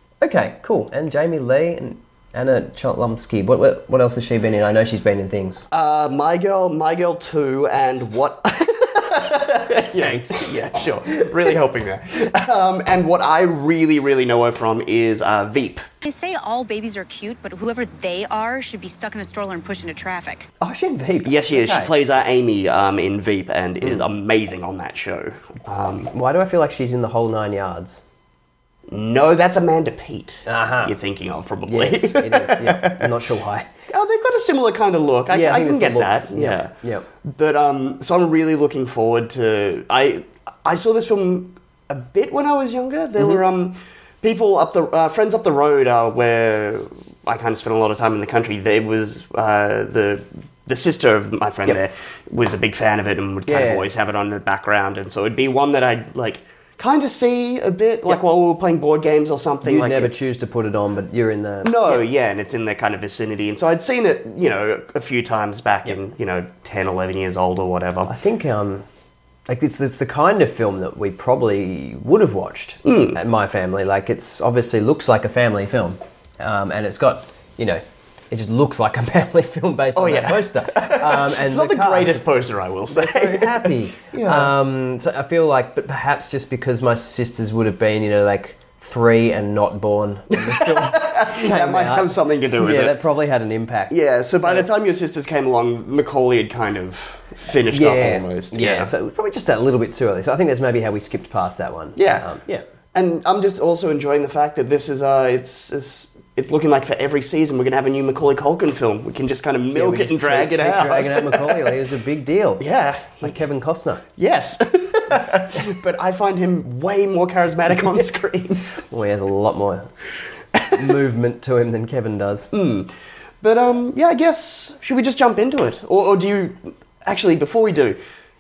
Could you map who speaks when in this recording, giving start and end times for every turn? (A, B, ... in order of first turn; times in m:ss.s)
0:00.2-0:05.7 A
0:05.7-0:15.8 B
0:10.0-0:10.5 A
0:11.2-0:11.5 A
0:16.0-0:20.5 C
0:20.6-0:21.9 A
0:21.2-0:26.1 B
0:23.8-0:24.0 A
0:26.1-0:28.0 A
0:28.9-0:33.1 B
0:30.4-0:31.0 A
0:31.7-0:33.7 A
0:33.9-1:00.1 B
0:35.3-0:37.1 A
0:43.2-0:43.4 A
0:53.5-0:53.9 A
0:59.6-1:02.0 A
1:01.6-1:08.1 B
1:08.0-1:08.8 A
1:09.5-1:22.3 A
1:12.8-1:13.2 B
1:20.0-1:24.5 B
1:22.9-1:34.7 A
1:30.3-1:33.0 B
1:33.9-1:38.9 B
1:37.7-1:42.7 A
1:42.0-1:42.3 B
1:42.9-1:51.8 B
1:49.7-1:54.0 A
1:52.6-1:53.4 B
1:54.2-1:58.7 B
1:55.2-1:55.8 A
1:58.7-1:59.9 A
2:00.7-2:02.5 A
2:02.5-2:08.0 B